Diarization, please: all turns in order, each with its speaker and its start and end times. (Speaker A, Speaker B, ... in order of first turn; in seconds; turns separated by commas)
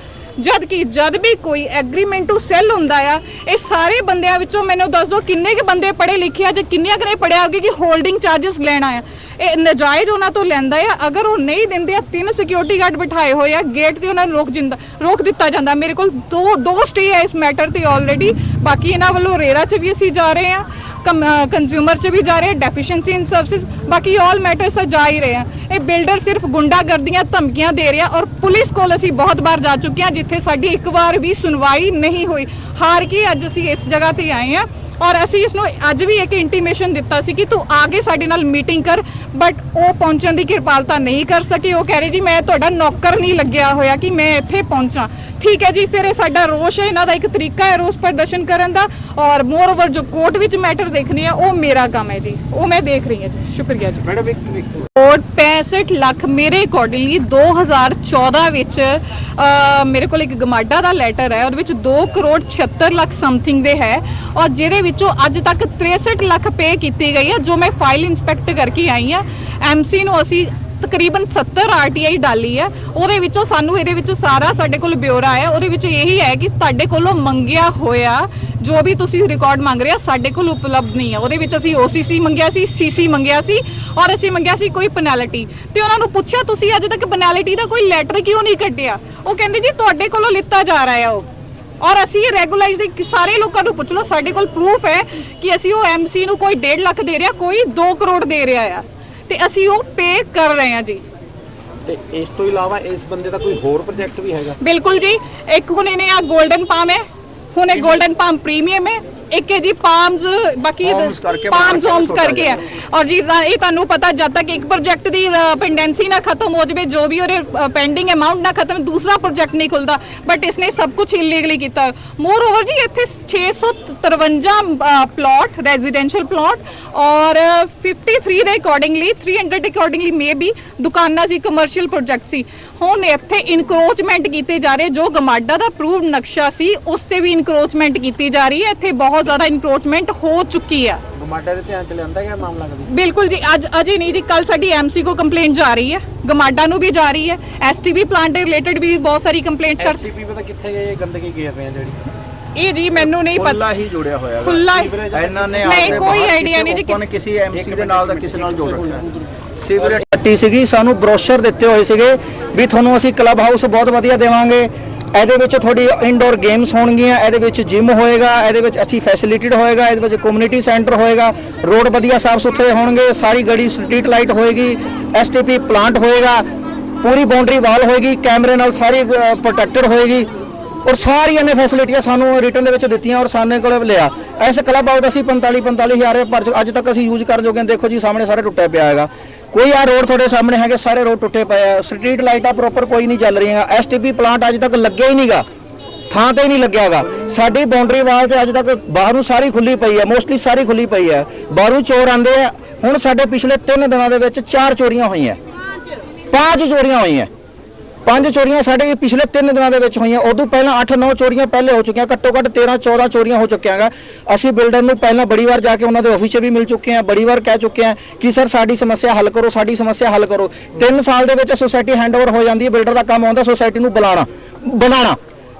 Speaker A: 0.4-54.0, Speaker B: 54.1-54.6, Speaker A: 55.0-91.2, Speaker A: 91.8-101.0, Speaker B: 101.8-104.6, Speaker A: 104.6-107.0, Speaker A: 107.5-141.0, Speaker C: 110.8-112.6, Speaker B: 141.2-142.9, Speaker A: 142.9-150.0, Speaker B: 149.8-152.0, Speaker A: 152.6-153.6, Speaker C: 153.3-158.9, Speaker A: 154.4-154.9, Speaker B: 154.7-156.2, Speaker A: 155.6-157.0, Speaker B: 157.5-160.0, Speaker C: 159.6-176.4, Speaker C: 177.0-180.3, Speaker C: 180.8-195.4, Speaker C: 196.1-205.4, Speaker C: 206.3-207.3, Speaker C: 208.1-225.2